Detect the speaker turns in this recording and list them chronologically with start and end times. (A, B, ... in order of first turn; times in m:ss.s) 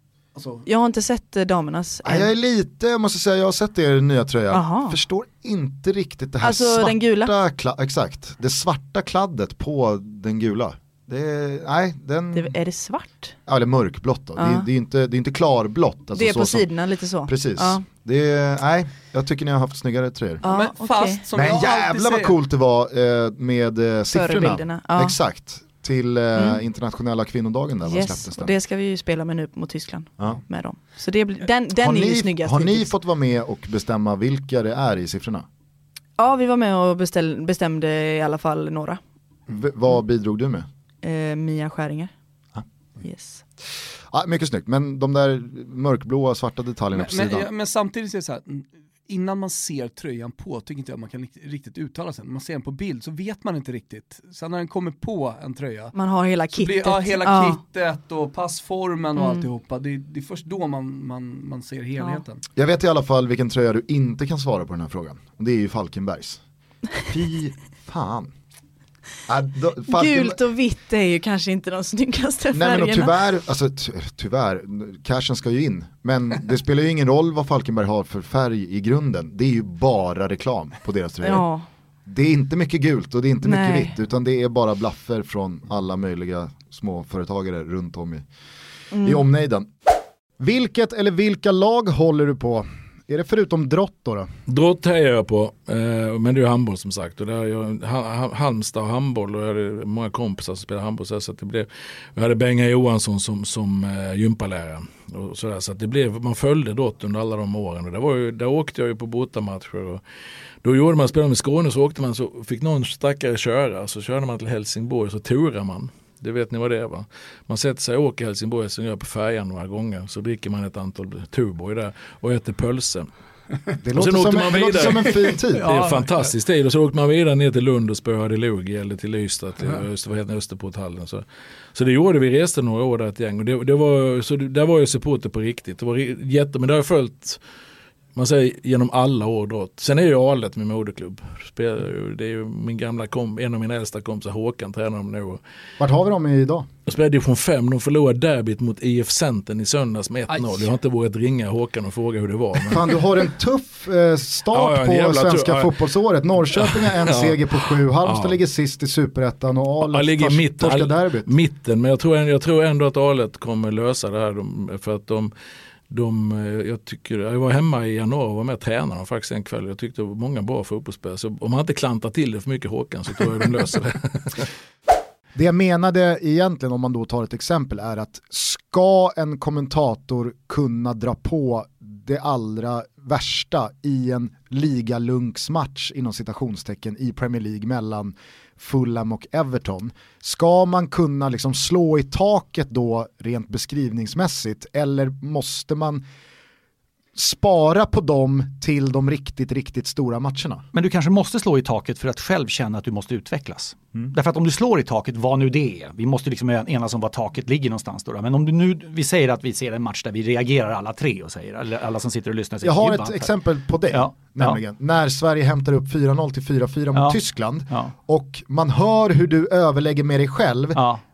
0:00.3-0:00.6 A
0:00.6-0:02.3 B
0:02.0-0:12.5 C
0:04.5-0:05.0 B
0:06.4-0:07.3 B
0:12.3-0:13.3 B
0:13.4-0:16.7 C
0:14.4-0:14.7 B
0:16.1-0:17.8 B
0:17.2-0:20.4 C
0:20.4-0:21.3 B
0:20.4-0:22.3 A
0:21.3-0:28.5 C
0:24.1-0:25.2 B
0:26.3-0:26.6 B
0:27.8-0:32.9 B
0:31.6-0:35.4 C
0:36.2-0:39.0 B
0:39.5-0:40.6 C
0:41.0-0:42.1 B
0:43.0-0:43.4 B
0:44.1-0:47.5 C
0:46.9-0:55.9 A
0:55.9-0:57.6 B
0:56.5-1:02.4 A
0:59.2-0:59.5 B
1:02.0-1:02.2 B
1:02.5-1:06.4 C
1:07.1-1:08.3 C
1:09.3-1:10.4 C
1:09.8-1:13.1 B
1:12.5-1:21.4 C
1:21.2-1:21.6 B
1:22.0-1:28.2 C
1:23.4-1:23.9 B
1:28.9-1:29.2 B
1:29.0-1:29.7 C
1:30.4-1:34.3 C
1:34.5-1:50.0 D
1:50.6-2:03.1 D
2:03.8-2:05.6 C
2:03.9-2:17.4 D
2:05.5-2:06.3 A
2:18.1-2:25.4 D
2:25.8-2:26.7 C
2:26.8-2:33.0 D
2:30.3-2:30.7 A
2:32.7-2:41.3 C
2:34.5-2:35.8 D
2:36.5-2:38.4 D
2:39.8-2:45.3 D
2:45.9-2:54.4 D
2:55.3-3:16.0 C
3:17.1-3:20.6 C
3:20.7-3:33.3 E
3:32.6-3:40.8 C
3:33.9-3:34.6 E
3:40.7-3:41.0 E